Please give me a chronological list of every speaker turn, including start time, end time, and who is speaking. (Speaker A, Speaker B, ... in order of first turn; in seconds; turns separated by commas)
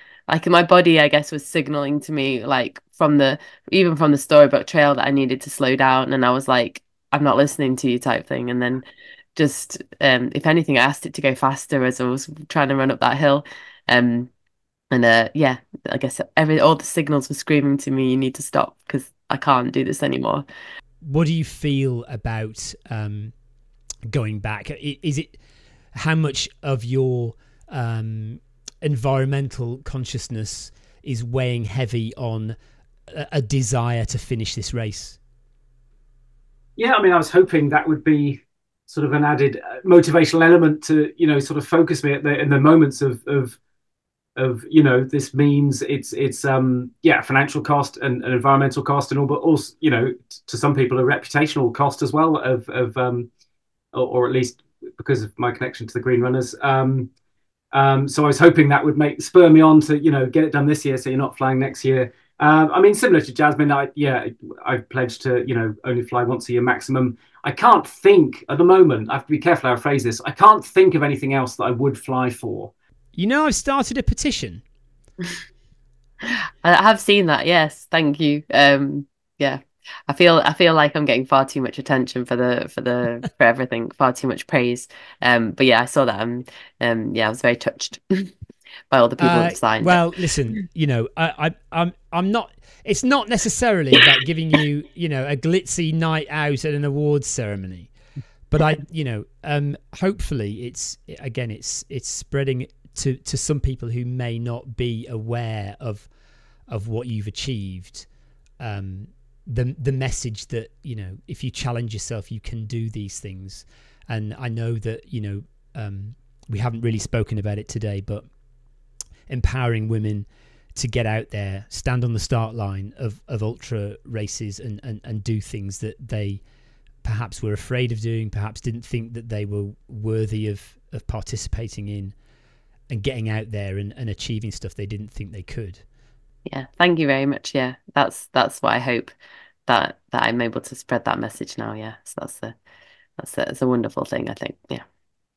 Speaker A: 0.3-8.8, Speaker A: 9.4-14.3, Speaker A: 14.9-20.4, Speaker B: 21.0-23.3, Speaker B: 24.1-25.4, Speaker B: 25.9-32.6, Speaker B: 33.1-35.2, Speaker C: 36.8-43.6, Speaker C: 44.4-53.3, Speaker C: 53.9-57.1, Speaker C: 57.7-72.7, Speaker B: 73.2-74.6, Speaker A: 76.6-88.3, Speaker A: 88.9-90.0, Speaker B: 89.2-97.9, Speaker B: 98.5-106.1, Speaker B: 106.7-108.1, Speaker B: 108.6-118.3, Speaker B: 119.3-126.4, Speaker B: 127.0-132.2, Speaker B: 132.9-135.8, Speaker A: 136.5-139.1, Speaker A: 139.7-142.5, Speaker A: 143.2-144.8